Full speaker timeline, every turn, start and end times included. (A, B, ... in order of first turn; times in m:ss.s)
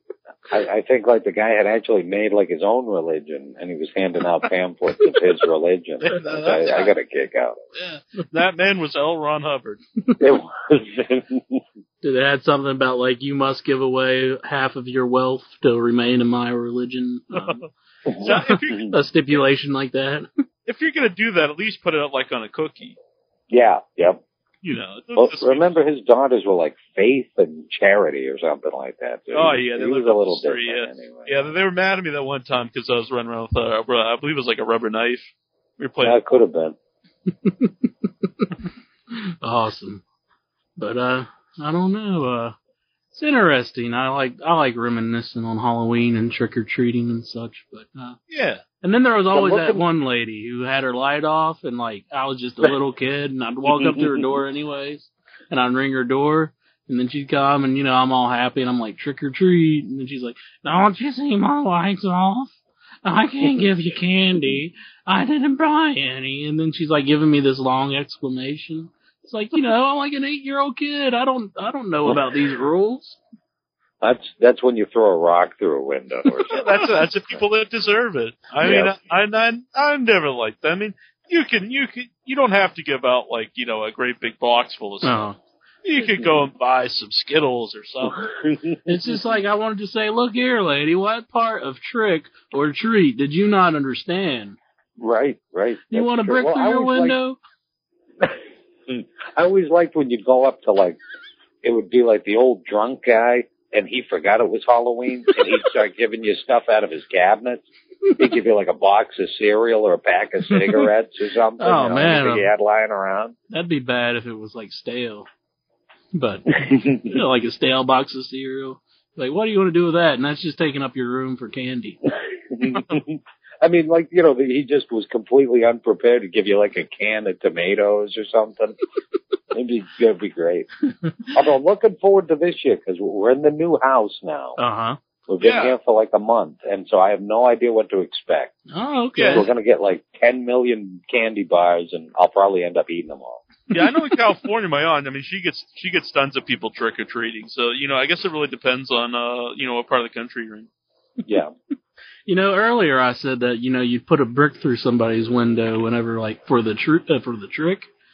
0:00.5-0:07.6 A
0:06.0-0:06.9 B
0:07.8-0:09.8 B
0:10.2-0:11.6 A
0:12.0-0:17.6 C
0:17.4-0:17.6 B
0:18.1-0:18.9 A
0:18.2-0:18.9 B
0:18.9-0:20.3 C
0:20.7-0:23.0 B
0:23.5-0:24.2 A
0:24.6-0:25.7 B
0:25.2-0:31.4 A
0:29.3-0:36.2 B
0:36.0-0:36.8 A
0:37.4-0:37.7 C
0:39.1-0:40.0 C
0:40.8-0:42.6 C
0:43.1-0:48.2 C
0:48.3-0:48.6 B
0:48.8-1:13.2 C
0:49.3-0:49.8 A
0:53.7-0:54.2 A
1:14.0-1:17.4 A
1:16.5-1:25.3 B
1:18.6-1:18.9 A
1:25.0-1:25.4 C
1:25.8-1:28.3 B
1:28.9-1:34.6 C
1:35.0-1:37.2 A
1:35.9-1:37.4 C
1:38.9-1:41.0 A
1:41.6-1:47.7 A
1:48.2-1:53.4 A
1:51.6-1:52.5 C
1:53.5-1:55.3 C
1:56.1-2:02.0 C
2:02.5-2:08.8 A
2:09.5-2:10.7 A
2:11.3-2:14.6 A
2:14.6-2:15.0 C
2:15.3-2:18.6 A
2:15.4-2:15.8 B
2:18.7-2:19.4 C
2:19.2-2:19.4 B
2:19.3-2:23.4 A
2:23.7-2:30.7 B
2:31.3-2:31.5 A
2:32.3-2:37.9 C